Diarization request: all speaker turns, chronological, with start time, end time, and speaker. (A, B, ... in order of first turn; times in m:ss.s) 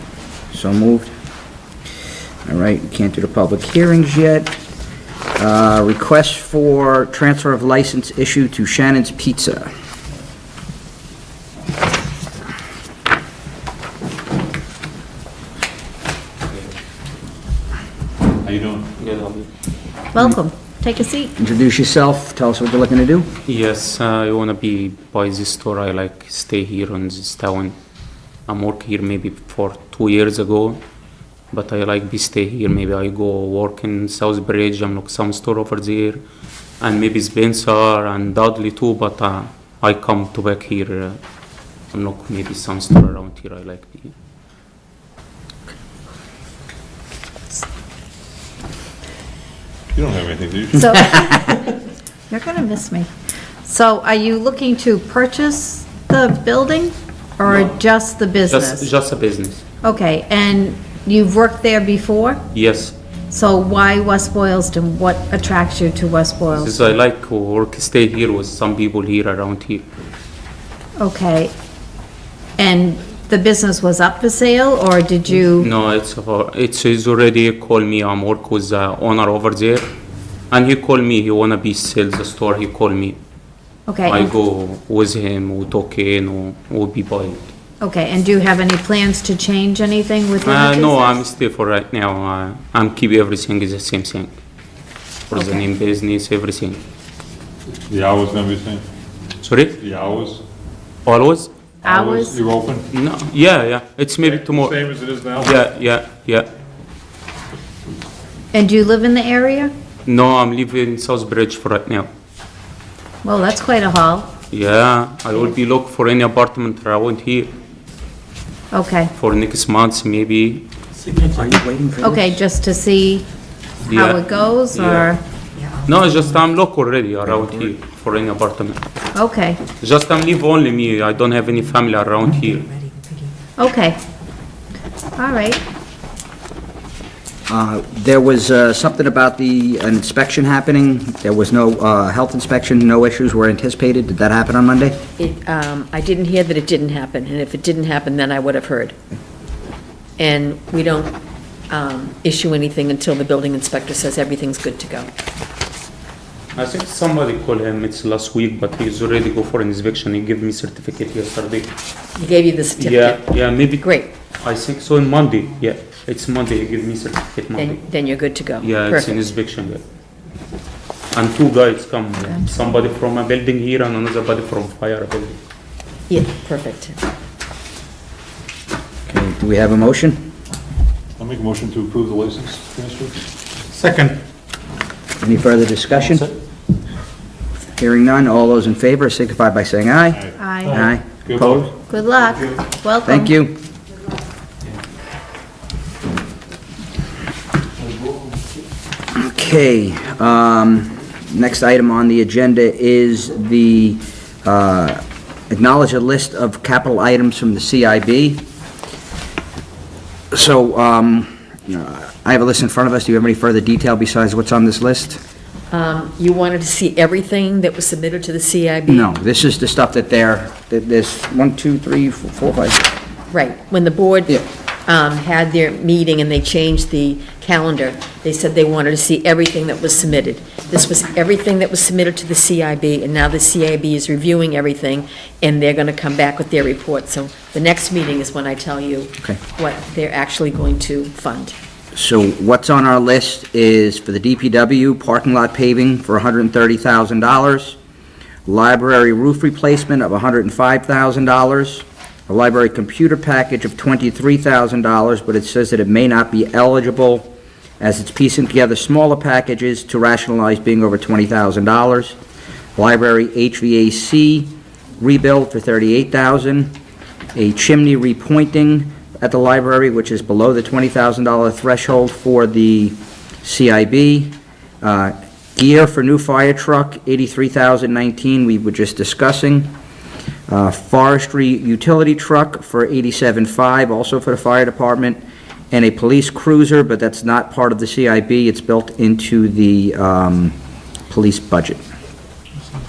0:00.5-0:01.1 A
0:02.4-0:04.5 A
0:05.4-0:09.7 A
0:18.4-0:18.9 B
0:19.0-0:19.5 C
0:20.1-0:21.3 D
0:21.4-0:23.3 A
0:23.4-0:27.7 C
0:28.5-0:30.8 C
0:31.5-0:36.2 C
0:36.8-0:41.2 C
0:41.9-0:44.1 C
0:49.9-0:51.4 B
0:50.7-0:51.6 D
0:52.3-0:53.1 D
0:53.6-0:58.9 D
0:58.5-0:59.6 C
0:59.8-1:02.4 D
1:02.5-1:02.9 C
1:03.3-1:06.9 D
1:06.5-1:09.8 C
1:11.0-1:11.5 D
1:12.6-1:15.7 D
1:15.6-1:19.9 C
1:20.5-1:23.2 C
1:23.9-1:24.3 D
1:24.0-1:27.5 C
1:27.8-1:31.3 D
1:30.4-1:34.3 C
1:35.3-1:36.8 C
1:35.3-1:35.7 D
1:37.9-1:38.8 B
1:39.4-1:39.8 C
1:39.8-1:40.4 B
1:41.0-1:41.5 C
1:41.8-1:42.9 B
1:41.8-1:42.4 D
1:42.9-1:46.5 C
1:44.3-1:45.6 B
1:48.5-1:49.7 D
1:50.0-1:52.1 C
1:53.2-1:54.3 D
1:54.5-1:57.5 C
1:58.7-1:59.1 D
1:59.2-2:00.7 C
2:01.2-2:02.3 A
2:02.0-2:03.3 D
2:03.8-2:05.1 C
2:03.9-2:05.2 D
2:05.8-2:08.8 C
2:09.1-2:09.6 D
2:09.8-2:12.7 C
2:13.6-2:14.0 D
2:15.2-2:15.6 D
2:17.5-2:25.0 A
2:25.2-2:28.9 E
2:30.2-2:31.2 E
2:31.7-2:35.1 E
2:36.5-2:41.7 C
2:42.1-2:44.1 E
2:42.8-2:47.9 C
2:47.5-2:49.3 E
2:48.6-2:49.8 C
2:51.1-2:55.4 C
2:56.1-2:57.0 E
2:59.1-3:00.2 A
3:01.2-3:04.2 B
3:05.2-3:06.3 A
3:07.7-3:11.7 A
3:10.3-3:11.8 B
3:10.4-3:10.8 D
3:11.9-3:13.3 D
3:13.0-3:13.6 A
3:19.1-3:28.4 A
3:30.3-3:35.2 A
3:35.7-3:39.1 E
3:38.9-3:42.9 A
3:43.3-4:01.5 E
4:01.9-4:07.8 A
4:08.4-4:17.3 A
4:17.8-4:22.2 A
4:22.8-4:26.7 A
4:27.3-4:39.7 A
4:40.5-4:45.2 A
4:45.7-4:50.5 A
4:51.1-4:51.8 A